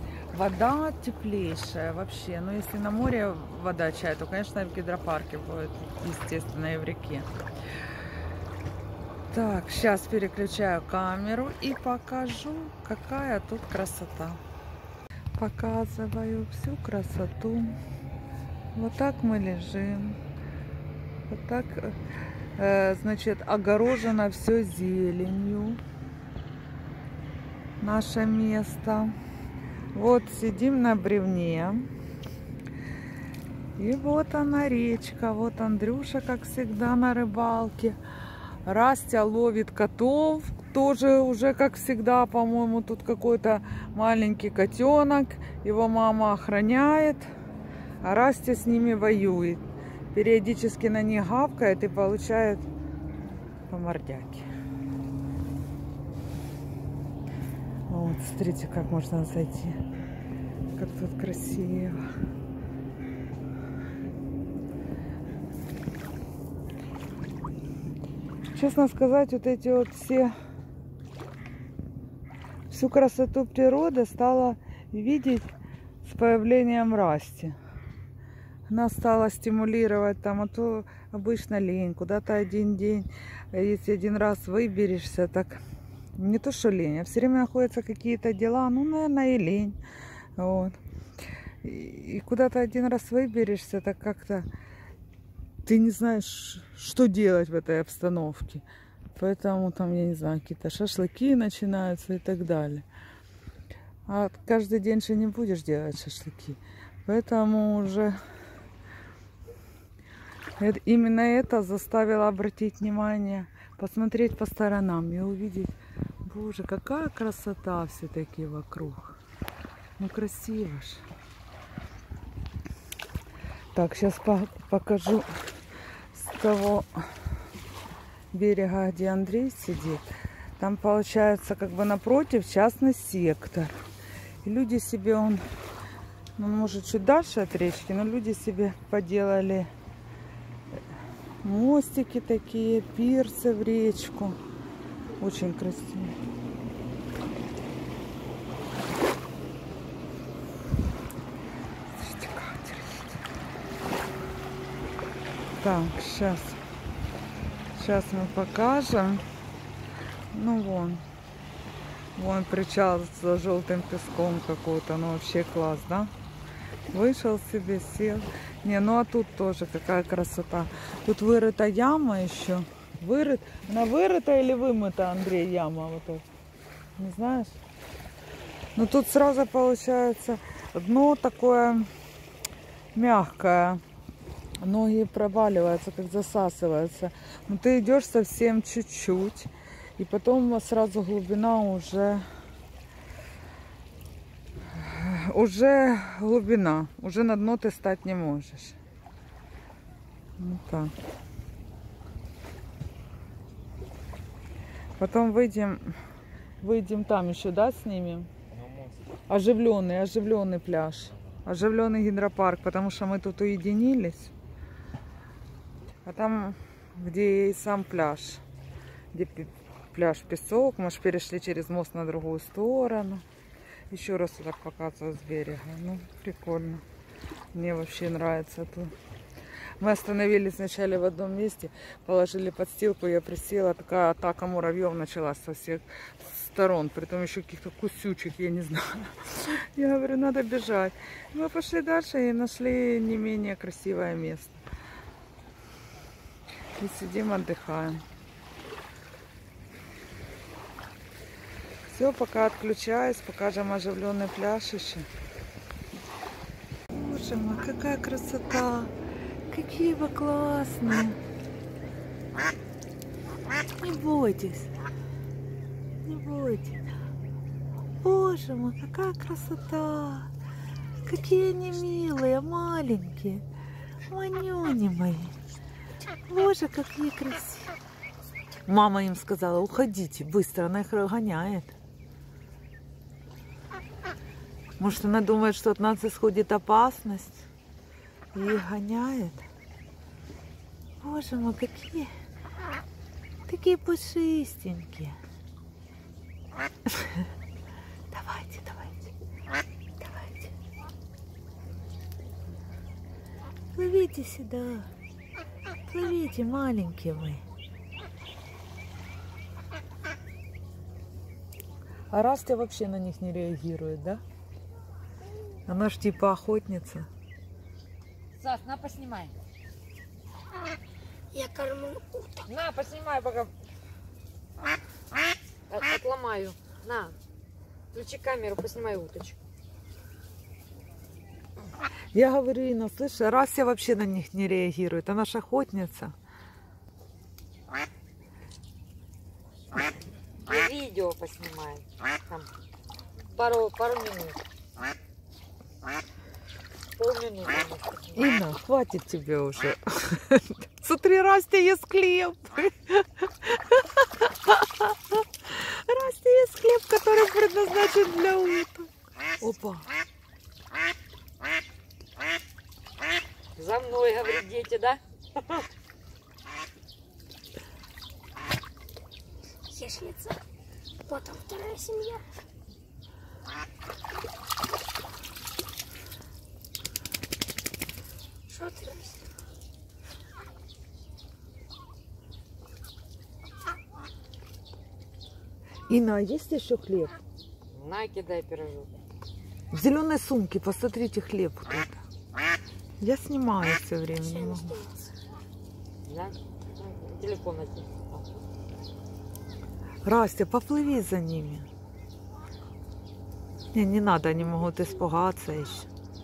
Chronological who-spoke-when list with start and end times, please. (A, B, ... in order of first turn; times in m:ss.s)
0:00.3-0:07.3 A
0:09.3-0:14.4 A
0:15.4-0:17.7 A
0:18.7-0:20.2 A
0:21.3-0:22.0 A
0:22.6-0:25.8 A
0:27.8-0:29.1 A
0:29.9-0:31.9 A
0:33.8-0:38.0 A
0:38.6-0:47.2 A
0:48.0-0:52.6 A
0:53.7-0:54.4 A
0:57.9-0:59.8 A
1:00.7-1:02.0 A
1:08.5-1:10.3 A
1:12.7-1:15.4 A
1:16.0-1:17.5 A
1:18.7-1:25.6 A
1:26.2-1:29.8 A
1:30.4-1:30.8 A
1:31.6-1:34.4 A
1:35.6-1:38.6 A
1:39.2-1:42.8 A
1:44.1-1:48.2 A
1:50.6-1:55.7 A
1:56.2-1:59.2 A
2:00.0-2:01.0 A
2:03.7-2:05.3 A
2:06.1-2:06.9 A
2:08.3-2:13.7 A
2:14.4-2:15.4 A
2:16.4-2:19.7 A
2:21.4-2:24.4 A
2:25.2-2:26.1 A
2:31.9-2:33.2 A
2:35.6-2:36.6 A
2:37.7-2:39.2 A
2:40.3-2:41.0 A
2:42.2-2:46.1 A
2:46.9-2:56.2 A
2:57.0-2:57.5 A
2:58.7-3:01.9 A
3:02.9-3:03.8 A
3:04.6-3:12.2 A
3:14.7-3:18.8 A
3:20.4-3:20.9 A
3:25.0-3:26.0 A
3:26.6-3:28.3 A
3:29.3-3:34.3 A
3:36.0-3:38.4 A
3:39.1-3:43.2 A
3:43.9-3:46.8 A
3:47.5-3:48.9 A
3:49.8-4:04.6 A
4:06.8-4:08.0 A
4:11.8-4:15.1 A
4:16.9-4:18.9 A
4:19.5-4:21.2 A
4:23.8-4:24.7 A
4:26.0-4:26.8 A
4:28.0-4:30.3 A
4:31.0-4:33.4 A
4:34.1-4:35.3 A
4:36.3-4:37.7 A
4:38.7-4:41.7 A
4:44.8-4:47.4 A
4:48.3-4:49.4 A
4:51.0-4:52.1 A
4:53.4-4:55.2 A
4:58.1-4:59.1 A
5:00.0-5:00.5 A
5:03.7-5:04.9 A
5:05.8-5:07.4 A
5:12.1-5:14.2 A
5:15.7-5:17.1 A
5:18.4-5:19.3 B
5:21.3-5:22.4 C
5:22.4-5:23.5 B
5:25.7-5:27.1 B
5:27.9-5:29.4 B
5:32.1-5:36.1 A
5:40.4-5:42.5 B
5:43.3-5:44.4 B
5:47.0-5:48.3 B
5:48.2-5:59.9 A
6:03.6-6:05.6 B
6:09.7-6:10.4 C
6:11.0-6:12.2 C
6:18.5-6:19.2 C
6:25.9-6:27.1 A
6:27.7-6:28.9 B
6:29.7-6:32.0 A
6:33.0-6:34.8 A
6:34.6-6:34.9 C
6:36.0-6:38.2 B
6:40.0-6:41.7 A
6:43.7-6:45.9 A